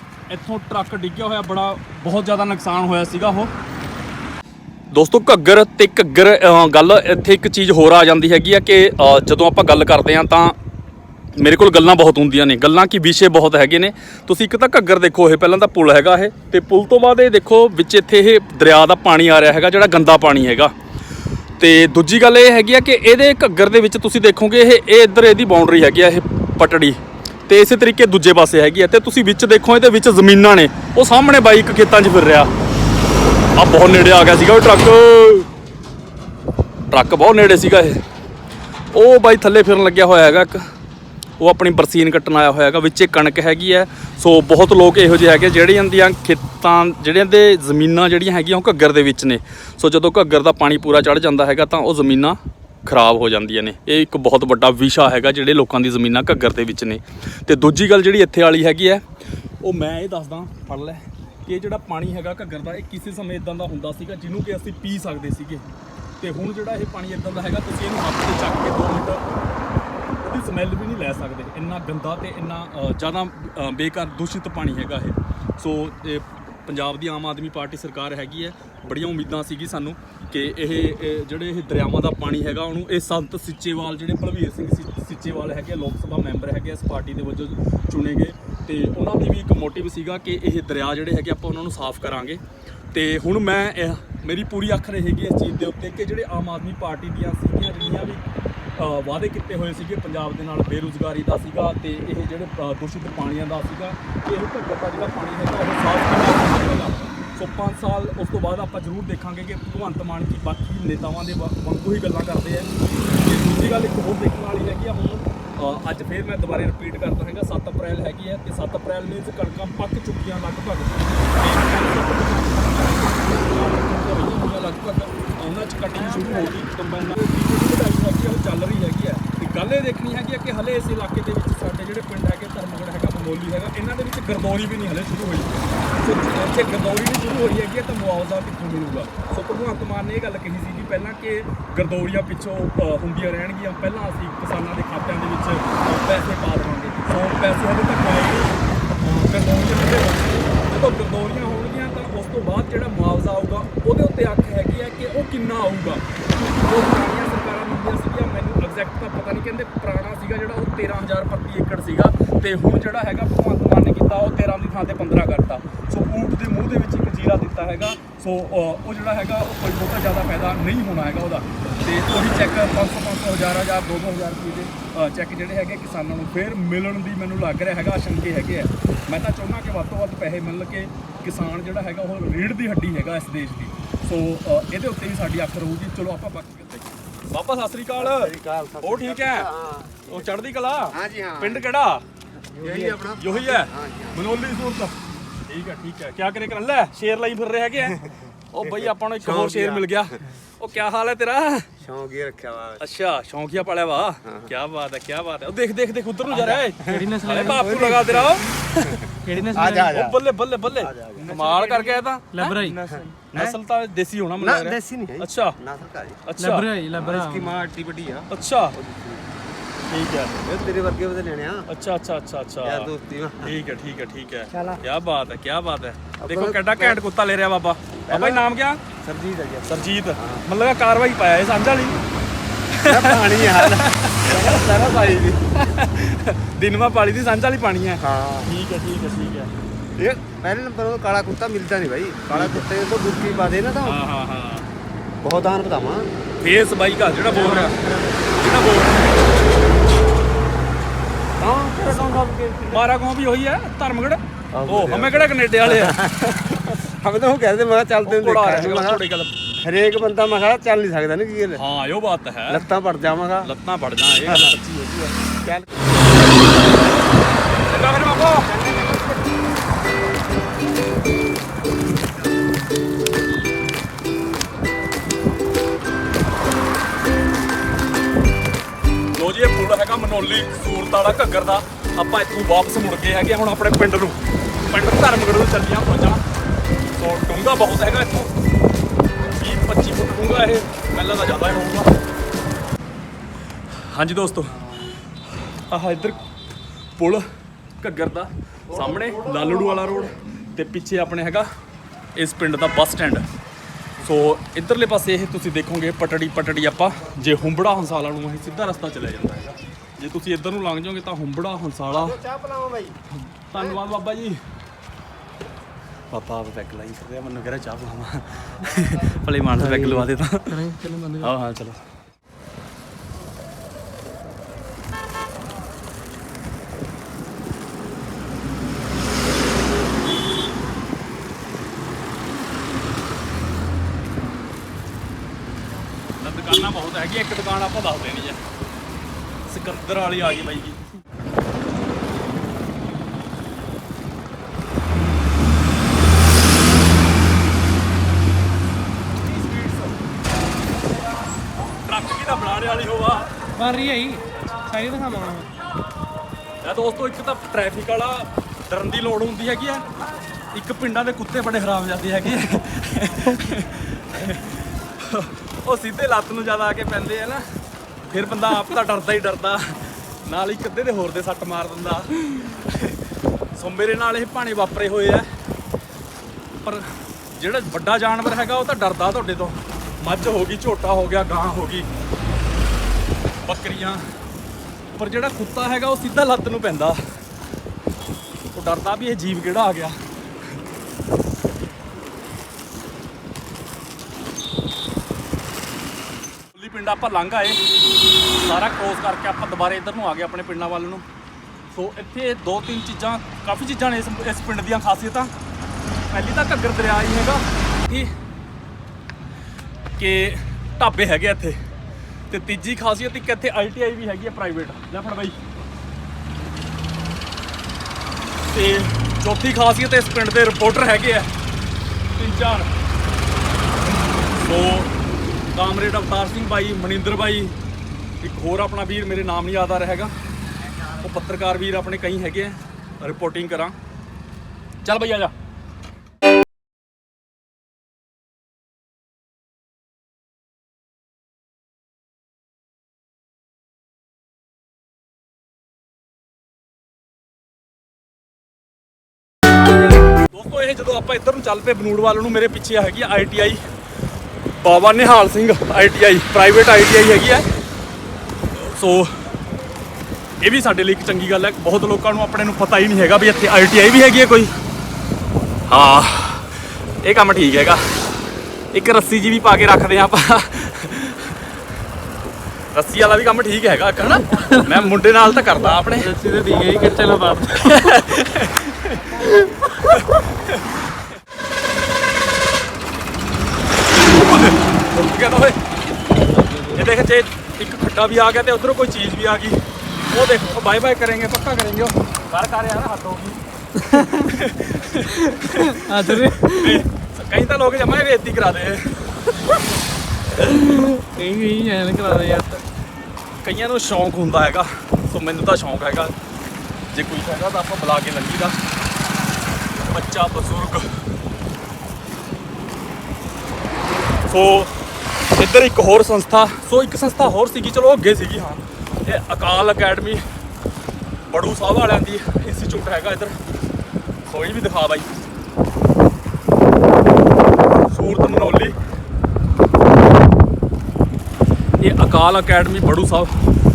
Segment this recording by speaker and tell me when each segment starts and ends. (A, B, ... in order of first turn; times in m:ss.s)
0:00.3-0:03.5 A
0:04.9-0:10.6 A
0:11.4-0:20.7 A
0:21.6-0:32.5 A
0:33.5-0:35.5 A
0:36.9-0:38.0 A
0:38.9-0:40.6 A
0:41.4-0:59.0 A
0:59.6-1:05.6 A
1:06.2-1:09.2 A
1:10.2-1:32.4 A
1:32.9-1:38.2 A
1:38.8-3:09.5 A
3:08.0-3:10.3 B
3:10.1-3:12.0 A
3:10.9-3:11.7 B
3:12.5-3:14.2 B
3:12.6-3:13.0 C
3:13.1-3:21.7 A
3:18.8-3:20.1 B
3:21.8-3:22.8 B
3:22.8-3:29.0 A
3:24.2-3:24.5 B
3:26.3-3:29.0 B
3:26.8-3:27.8 C
3:29.2-3:30.0 C
3:29.5-3:30.2 B
3:29.9-3:32.6 A
3:30.8-3:33.6 B
3:31.2-3:31.8 C
3:32.3-3:33.0 C
3:33.3-3:35.6 A
3:34.4-3:36.2 B
3:36.2-3:36.7 A
3:36.4-3:37.6 C
3:36.9-3:39.3 B
3:38.3-3:38.8 A
3:39.9-3:40.4 A
3:40.4-3:41.7 B
3:41.7-3:48.8 A
3:42.6-3:43.5 B
3:44.5-3:44.8 B
3:46.2-3:47.0 B
3:48.1-3:48.4 B
3:49.0-3:50.4 B
3:49.6-3:52.0 A
3:52.7-3:54.7 A
3:52.8-3:55.4 B
3:55.6-3:59.5 A
3:58.0-3:58.5 B
4:00.0-4:04.0 B
4:02.3-4:02.6 A
4:03.8-4:04.7 A
4:05.2-4:06.1 B
4:06.4-4:09.3 A
4:07.3-4:08.2 B
4:11.4-4:12.8 B
4:12.7-4:16.2 A
4:14.5-4:19.0 B
4:18.0-4:19.4 A
4:19.6-4:21.6 B
4:21.5-4:22.7 A
4:22.5-4:23.5 B
4:23.4-4:25.4 A
4:24.2-4:24.6 B
4:25.2-4:26.7 B
4:27.6-4:28.5 A
4:28.4-4:29.4 B
4:39.1-4:46.2 A
4:46.9-4:48.3 A
4:49.3-4:52.0 A
4:53.8-4:54.7 A
4:55.4-4:56.3 A
4:57.0-4:57.2 A
4:57.8-5:01.5 A
4:58.8-4:59.9 B
5:02.2-5:03.2 A
5:04.0-5:12.2 A
5:11.9-5:13.0 B
5:13.1-5:14.4 A
5:16.1-5:20.6 A
5:19.6-5:21.3 C
5:21.2-5:21.8 A
5:36.2-5:38.4 A
5:39.5-5:40.8 A
5:49.2-5:50.0 A
5:51.8-5:53.4 A
5:53.6-5:55.5 C
5:54.4-5:54.6 A
5:56.6-5:59.9 A
6:00.5-6:07.4 A
6:08.1-6:13.0 A
6:13.5-6:15.3 A
6:16.6-6:21.9 A
6:23.4-6:24.0 A
6:25.0-6:27.0 A
6:28.5-6:30.0 A
6:36.5-6:37.7 A
6:38.3-6:41.0 A
6:41.7-6:45.3 A
6:46.1-6:48.1 A
6:50.0-6:51.6 A
6:52.3-6:55.4 A
6:58.4-7:01.3 A
7:02.2-7:02.7 A
7:03.8-7:04.9 A
7:05.5-7:07.5 A
7:08.2-7:10.1 A
7:10.9-7:13.7 A
7:14.8-7:15.3 A
7:30.2-7:33.6 A
7:34.6-7:37.5 A
7:38.5-7:39.2 A
7:40.4-7:44.5 A
7:45.7-7:47.8 A
7:48.7-7:51.4 A
7:52.7-7:56.1 A
7:54.5-7:54.9 C
7:55.6-7:58.0 C
7:57.6-7:59.3 A
7:59.2-7:59.9 C
7:59.8-8:00.8 A
8:04.2-8:05.6 A
8:06.1-8:06.9 C
8:06.7-8:13.4 A
8:13.8-8:14.3 C
8:13.9-8:19.0 A
8:15.0-8:16.8 C
8:20.4-8:22.6 C
8:23.4-8:26.1 A
8:26.9-8:28.6 A
8:29.8-8:30.9 A
8:34.2-8:34.7 A
8:35.3-8:40.2 A
8:41.3-8:43.4 A
8:44.3-8:45.1 A
8:47.9-8:48.7 A
8:51.8-8:53.3 A